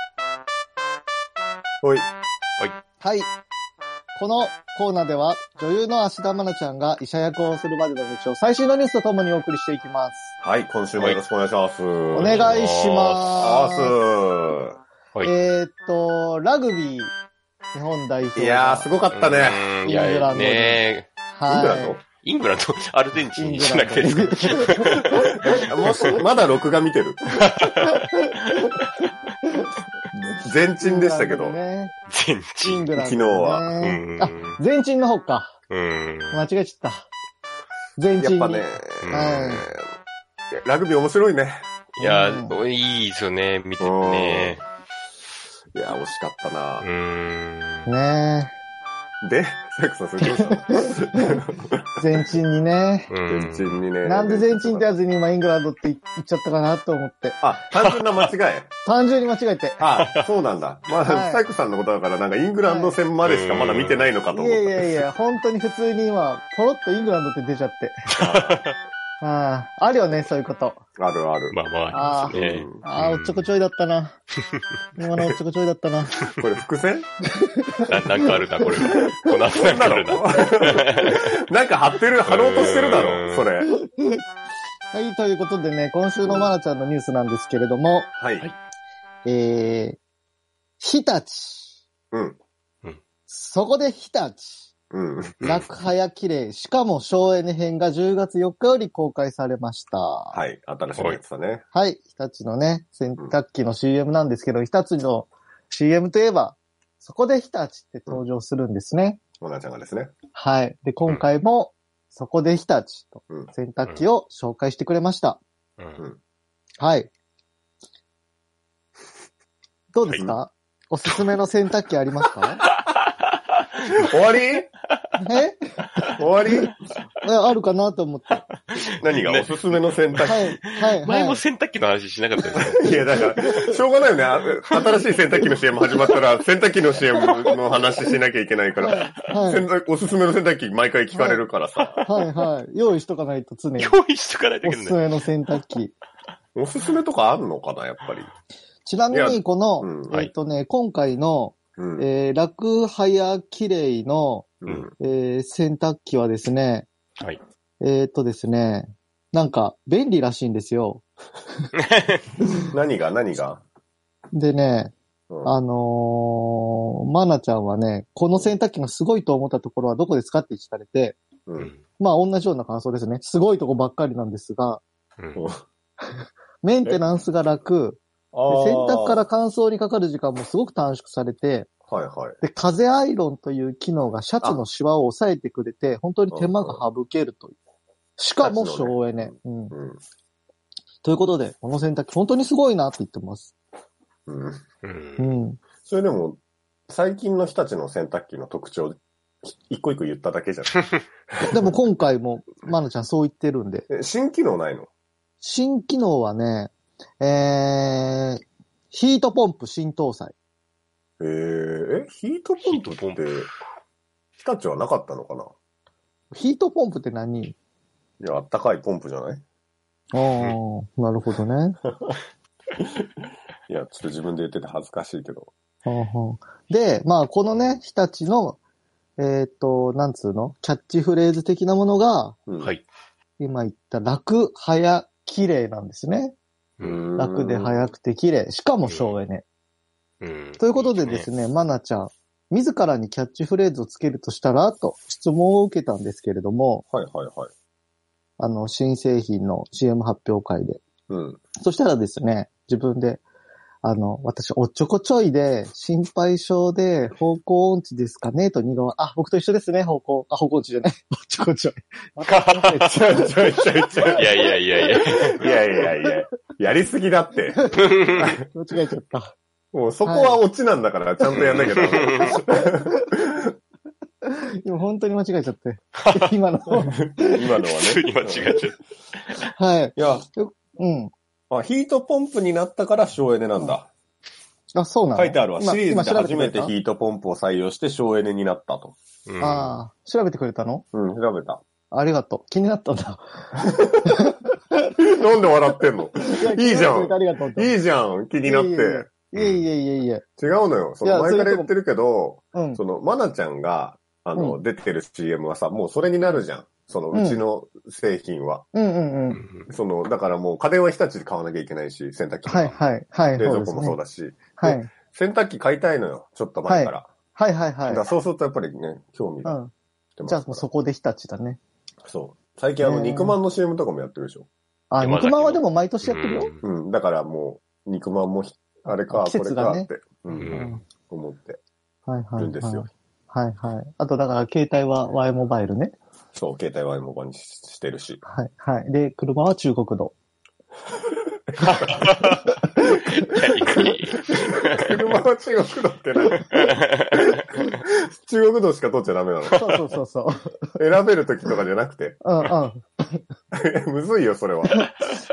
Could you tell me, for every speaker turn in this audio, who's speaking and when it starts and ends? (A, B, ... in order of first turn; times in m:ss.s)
0:01.8-0:02.1 A
0:03.0-0:03.3 B
0:04.1-0:10.3 B
0:10.4-0:12.4 A
0:12.1-0:13.9 B
0:12.2-0:13.3 C
0:13.4-0:14.8 A
0:15.2-0:17.1 B
0:17.7-0:18.9 B
0:18.4-0:19.6 A
0:19.1-0:21.1 C
0:19.8-0:22.0 B
0:21.4-0:22.0 A
0:22.2-0:25.3 C
0:23.4-0:26.0 B
0:25.1-0:27.3 A
0:25.8-0:26.1 C
0:27.3-0:29.1 C
0:27.8-0:28.7 B
0:29.5-0:31.9 B
0:30.4-0:31.6 A
0:32.1-0:32.9 C
0:32.6-0:35.6 B
0:33.0-0:33.7 A
0:33.8-0:34.6 C
0:35.7-0:36.4 C
0:36.3-0:37.1 B
0:38.0-0:39.6 B
0:38.2-0:39.8 A
0:39.0-0:39.6 C
0:40.5-0:41.7 A
0:42.0-0:44.6 C
0:42.0-0:42.6 B
0:43.8-0:44.6 A
0:45.7-0:46.8 A
0:46.8-0:47.9 C
0:47.8-0:48.5 B
0:49.2-0:52.0 A
0:50.5-0:51.4 B
0:52.0-0:53.1 B
0:53.1-0:53.8 C
0:53.3-0:54.9 A
0:54.0-0:57.4 B
0:57.4-0:58.7 A
0:58.8-0:59.8 B
0:59.8-1:04.9 A
1:01.0-1:01.4 B
1:02.6-1:03.0 B
1:03.2-1:04.1 C
1:04.3-1:07.9 B
1:08.1-1:08.8 C
1:08.2-1:08.6 A
1:09.2-1:10.8 B
1:11.0-1:11.6 A
1:11.5-1:13.5 C
1:11.9-1:14.2 B
1:12.3-1:12.8 A
1:14.5-1:15.3 C
1:15.0-1:16.3 B
1:16.3-1:17.1 A
1:17.3-1:19.3 B
1:17.8-1:21.3 C
1:19.5-1:23.7 A
1:22.2-1:23.5 C
1:23.8-1:24.2 B
1:24.9-1:28.1 B
1:26.2-1:26.5 A
1:28.2-1:28.4 A
1:29.2-1:30.0 B
1:30.8-1:31.7 B
1:32.1-1:32.4 A
1:33.3-1:34.7 B
1:34.9-1:35.5 A
1:35.4-1:35.7 C
1:35.4-1:40.4 B
1:40.3-1:41.6 A
1:41.7-1:49.2 B
1:49.4-1:50.1 A
1:50.3-1:55.4 B
1:56.8-1:57.1 B
1:59.9-2:02.6 B
2:02.7-2:04.1 C
2:04.0-2:04.7 A
2:05.2-2:06.0 B
2:06.2-2:06.7 A
2:07.2-2:08.4 B
2:08.7-2:12.9 C
2:08.8-2:10.6 A
2:10.2-2:11.4 B
2:12.5-2:22.1 A
2:17.1-2:17.6 C
2:18.8-2:19.7 B
2:21.1-2:21.4 B
2:22.0-2:24.0 B
2:23.8-2:25.0 C
2:24.6-2:25.9 B
2:26.5-2:28.3 A
2:28.8-2:34.5 B
2:29.1-2:30.1 A
2:31.8-2:32.0 A
2:34.6-2:34.9 A
2:35.0-2:36.9 B
2:37.8-2:41.0 B
2:41.8-2:42.3 C
2:42.6-2:43.6 A
2:44.3-2:44.9 B
2:45.4-2:51.2 B
2:51.5-2:51.7 A
2:51.6-2:51.8 C
2:52.0-2:54.8 B
2:55.3-2:55.6 A
2:56.6-3:01.7 B
2:58.3-2:59.2 A
3:01.9-3:02.4 A
3:02.4-3:07.6 B
3:06.3-3:06.8 A
3:08.2-3:09.7 B
3:08.4-3:10.0 A
3:11.0-3:13.5 B
3:14.3-3:14.6 A
3:14.8-3:15.3 C
3:15.2-3:15.6 B
3:15.8-3:20.8 A
3:21.3-3:21.7 A
3:21.5-3:23.9 B
3:23.9-3:24.9 A
3:25.4-3:30.3 B
3:31.2-3:33.5 A
3:32.6-3:33.2 C
3:34.4-3:35.5 A
3:36.3-3:37.5 B
3:38.2-3:39.4 A
3:40.1-3:41.8 B
3:43.7-3:45.5 A
3:45.8-3:48.6 B
3:49.2-3:52.4 B
3:53.4-3:56.3 B
3:56.8-3:57.1 C
3:56.8-3:57.9 A
3:57.2-3:59.4 B
3:58.8-3:59.2 C
4:00.2-4:01.3 C
4:00.6-4:06.8 B
4:06.9-4:07.5 A
4:08.4-4:10.8 B
4:11.1-4:11.4 A
4:11.6-4:13.2 B
4:13.8-4:23.6 B
4:22.2-4:23.0 C
4:22.8-4:24.5 A
4:24.1-4:25.5 C
4:25.1-4:28.4 A
4:27.7-4:28.4 C
4:28.4-4:29.3 B
4:29.7-4:33.5 A
4:30.0-4:30.4 B
4:31.3-4:32.4 C
4:32.0-4:33.0 B
4:34.2-4:37.3 B
4:36.0-4:36.3 C
4:36.9-4:38.6 A
4:37.6-4:38.8 C
4:39.6-4:41.1 B
4:40.0-4:40.3 A
4:41.5-4:43.9 A
4:44.7-4:46.7 B
4:45.1-4:48.9 A
4:49.3-4:49.8 C
4:49.4-4:50.8 B
4:50.9-4:51.6 A
4:51.9-4:54.4 B
4:53.7-4:54.1 A
4:55.0-4:59.1 A
4:56.3-4:57.7 B
4:58.4-5:00.2 B
4:59.3-4:59.6 C
5:00.4-5:08.6 A
5:01.0-5:01.7 B
5:02.5-5:02.8 B
5:04.3-5:04.6 B
5:07.1-5:07.4 B
5:08.7-5:09.4 B
5:09.3-5:09.7 C
5:09.7-5:12.8 A
5:12.5-5:14.0 B
5:13.4-5:17.1 A
5:14.6-5:14.9 B
5:16.7-5:18.0 B
5:17.9-5:19.6 A
5:19.4-5:19.7 B
5:20.2-5:20.6 A
5:20.2-5:21.6 B
5:22.0-5:24.5 A
5:22.8-5:23.4 B
5:24.9-5:26.5 B
5:25.0-5:26.7 C
5:26.6-5:31.6 A
5:28.9-5:29.9 B
5:30.3-5:30.7 C
5:30.5-5:30.8 B
5:32.1-5:35.9 B
5:32.4-5:32.8 A
5:36.3-5:38.2 A
5:38.2-5:40.1 B
5:41.5-5:42.0 A
5:41.6-5:42.5 C
5:43.1-5:45.0 C
5:43.3-5:49.6 A
5:46.5-5:47.4 C
5:49.5-5:50.8 B
5:50.8-5:52.2 A
5:52.2-5:53.2 B
5:53.5-5:54.9 A
5:54.7-5:55.0 B